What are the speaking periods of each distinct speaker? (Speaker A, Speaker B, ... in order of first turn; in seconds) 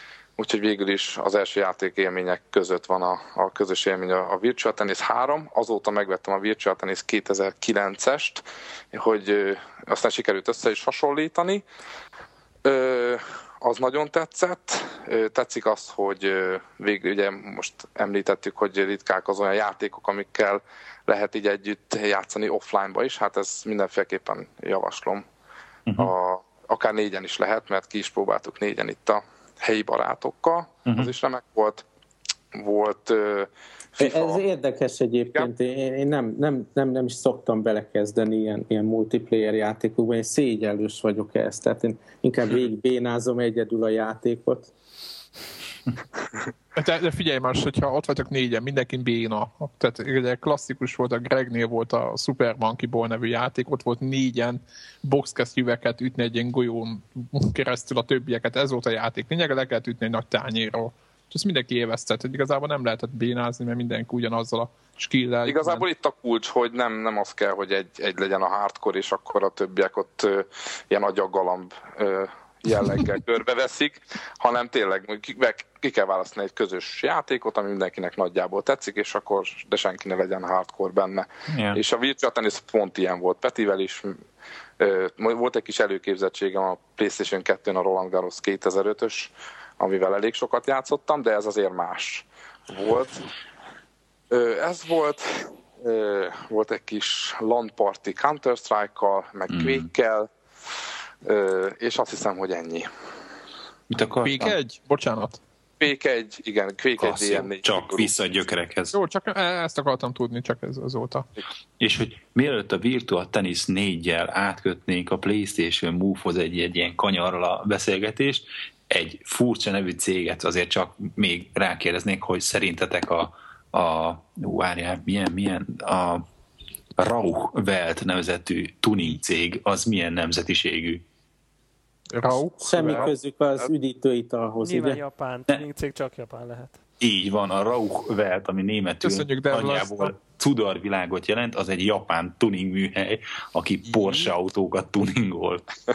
Speaker A: 0.4-11.6, 12.6-25.3, 26.0-31.8, 32.5-34.4, 65.5-84.2, 84.8-93.2, 94.3-100.3, 101.2-102.9, 105.8-108.1
Speaker B: 25.9-26.1, 81.5-81.8, 99.5-99.9, 103.9-104.6, 107.0-109.0, 111.8-126.2, 127.0-131.0, 137.0-145.7
Speaker C: 34.0-44.7, 132.6-135.0
Speaker D: 46.8-65.8, 104.2-105.4, 108.9-111.3, 132.1-133.2, 139.0-140.1, 143.9-144.3
Speaker E: 134.6-136.8